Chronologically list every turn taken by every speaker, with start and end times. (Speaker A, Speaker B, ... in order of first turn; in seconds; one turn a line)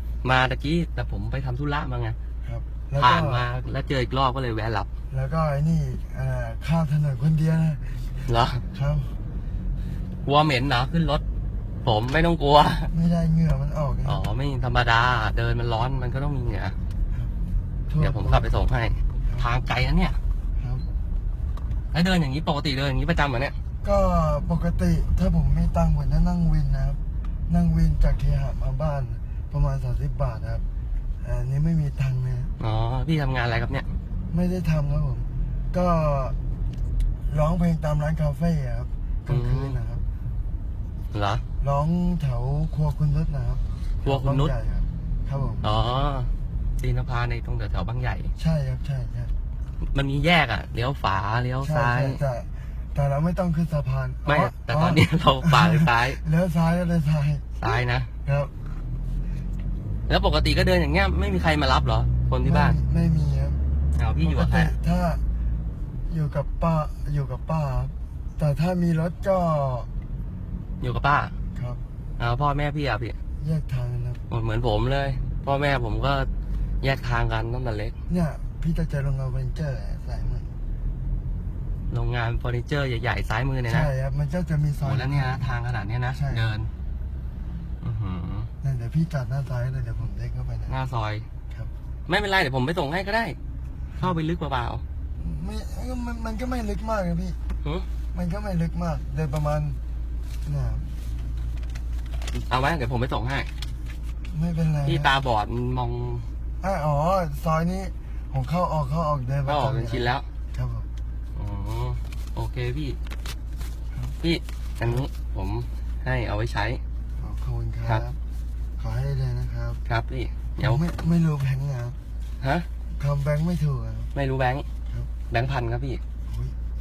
Speaker A: 0.2-2.2
Speaker B: 2.4-3.5
Speaker A: 3.0-4.9
Speaker B: 5.1-9.2
Speaker A: 8.3-8.7
Speaker A: 10.2-11.2
Speaker A: 11.8-12.9
Speaker B: 12.9-14.2
Speaker A: 14.1-16.8
Speaker B: 17.9-18.5
Speaker A: 18.0-20.2
Speaker B: 20.6-20.9
Speaker A: 21.9-23.6
Speaker B: 23.8-30.6
Speaker B: 31.2-32.5
Speaker A: 32.6-33.9
Speaker B: 34.3-36.4
Speaker B: 37.3-40.0
Speaker A: 39.3-39.8
Speaker A: 41.1-41.4
Speaker B: 41.6-45.6
Speaker A: 44.0-44.5
Speaker A: 45.6-48.3
Speaker B: 48.4-49.3
Speaker A: 49.8-52.2
Speaker B: 51.6-58.5
Speaker A: 54.3-56.2
Speaker A: 57.6-58.1
Speaker A: 60.1-62.8
Speaker B: 62.4-63.6
Speaker A: 64.0-64.8
Speaker B: 64.2-65.2
Speaker B: 66.1-69.9
Speaker A: 70.8-71.3
Speaker B: 71.5-71.8
Speaker A: 72.2-73.2
Speaker B: 73.4-74.2
Speaker A: 74.3-76.3
Speaker A: 76.8-77.9
Speaker B: 78.1-80.5
Speaker A: 81.9-83.9
Speaker B: 83.7-85.6
Speaker A: 84.8-86.7
Speaker B: 86.1-86.5
Speaker A: 87.8-88.5
Speaker B: 88.6-90.8
Speaker A: 90.7-91.3
Speaker A: 92.1-93.4
Speaker A: 94.0-94.8
Speaker B: 95.2-97.4
Speaker B: 98.1-99.8
Speaker B: 100.5-100.9
Speaker A: 102.3-103.5
Speaker B: 104.3-105.1
Speaker A: 104.8-106.3
Speaker B: 106.6-110.9
Speaker A: 109.5-110.3
Speaker A: 111.3-113.0
Speaker A: 114.2-116.8
Speaker B: 117.2-118.2
Speaker B: 118.8-119.8
Speaker A: 119.9-120.8
Speaker B: 120.6-122.0
Speaker A: 122.4-122.7
Speaker B: 122.9-124.1
Speaker A: 124.1-124.7
Speaker A: 125.3-126.0
Speaker B: 126.3-126.5